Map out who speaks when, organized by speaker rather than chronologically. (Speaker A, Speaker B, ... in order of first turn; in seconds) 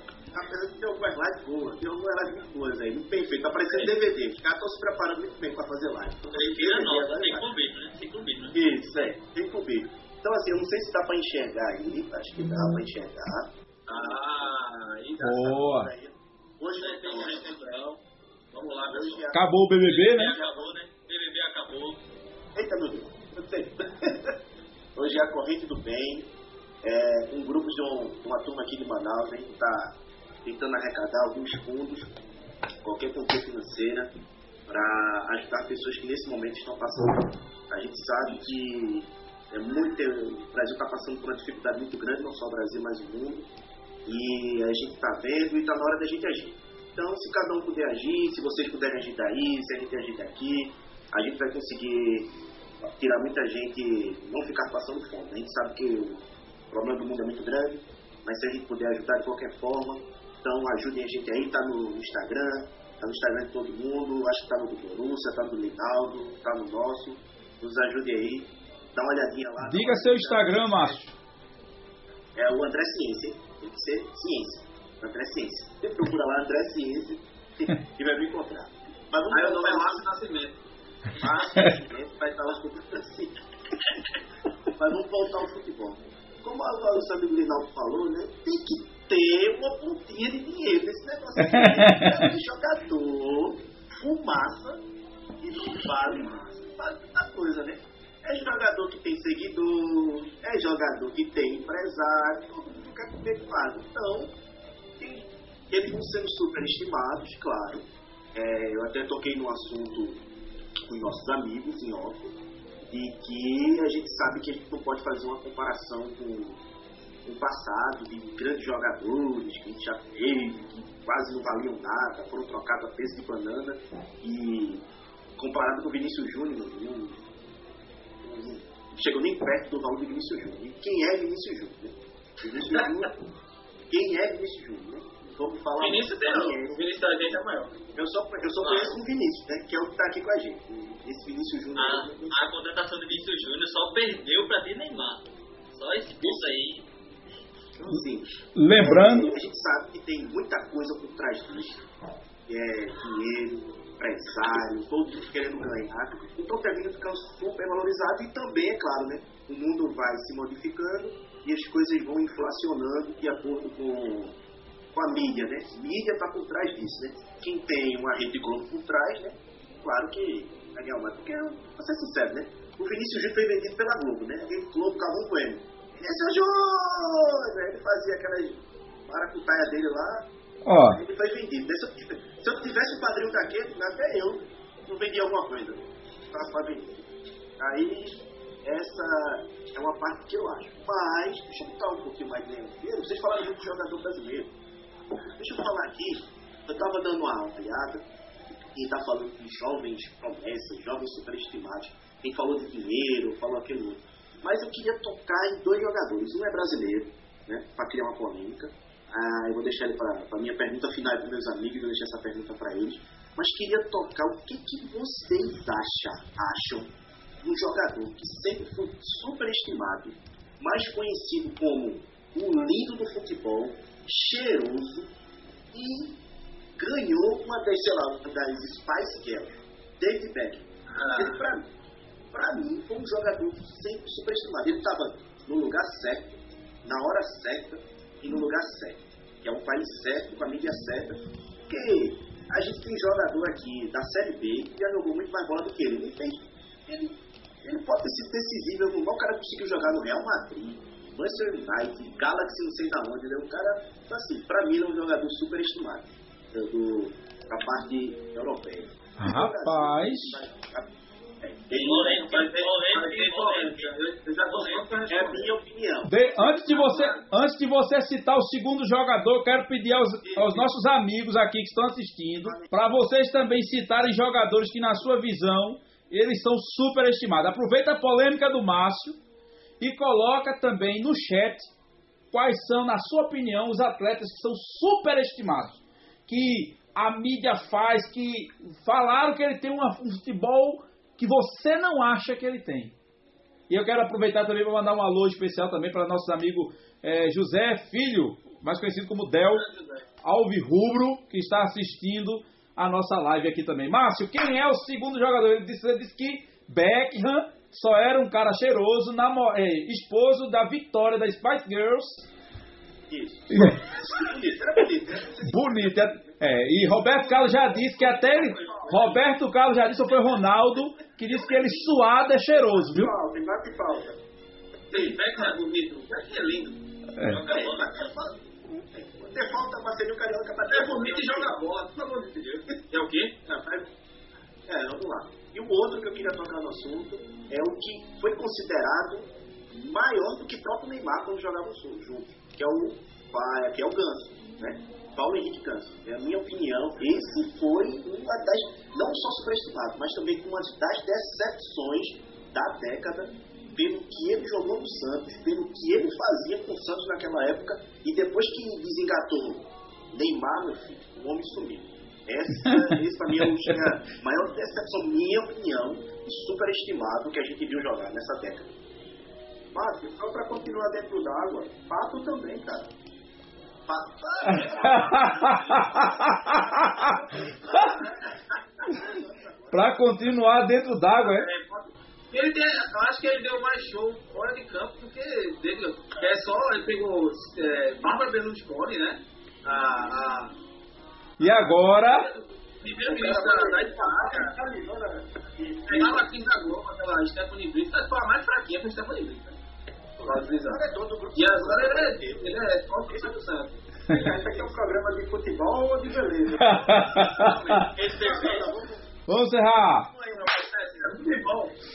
Speaker A: 0.3-7.5, 8.5-13.5, 15.5-17.6, 18.9-19.4, 22.5-24.4, 24.9-26.3, 26.8-32.2, 32.8-34.1, 34.7-43.5, 44.0-71.0, 72.3-80.0, 81.2-83.4, 84.7-94.8, 95.4-104.3, 105.0-110.2, 110.8-116.6, 117.2-124.8, 125.4-127.3, 128.2-133.2, 133.9-136.8, 137.9-142.5, 147.8-151.9, 152.5-164.3, 164.9-180.3, 180.9-194.5, 195.4-198.1, 198.7-225.1, 225.7-226.2, 226.8-231.7, 232.3-262.5, 265.1-266.2, 270.2-270.7, 272.4-272.8, 313.1-315.8, 327.4-331.6, 333.4-333.9, 334.6-368.7, 373.9-380.1, 400.2-402.6, 410.1-410.5
Speaker B: 6.3-8.6, 16.9-17.8, 19.8-22.0, 138.6-139.0, 141.8-146.9, 261.7-263.9, 327.3-328.1, 408.2-408.6
Speaker C: 13.9-15.5, 16.8-17.8, 18.5-19.3, 79.3-80.6, 135.8-137.7, 230.9-231.4, 261.8-265.5, 266.7-267.2, 299.5-300.1, 318.0-318.9, 324.9-327.8, 330.7-333.4, 381.2-390.5, 391.4-394.5, 395.9-399.6, 400.2-400.8, 401.3-404.1, 406.9-408.6, 410.2-411.7
Speaker D: 15.2-15.9, 19.3-20.3, 69.6-71.1, 91.4-92.3, 148.6-149.3, 180.6-181.0, 259.2-260.4, 266.1-279.2, 279.8-281.7, 282.3-292.9, 293.7-299.7, 300.2-312.3, 313.5-313.8, 315.4-323.1, 362.6-363.0, 374.5-377.1, 379.7-381.5, 391.4-392.3, 406.6-407.9, 409.3-410.1
Speaker E: 318.3-319.1, 322.9-324.2, 369.7-372.9, 393.1-396.2, 404.1-407.1, 407.9-408.9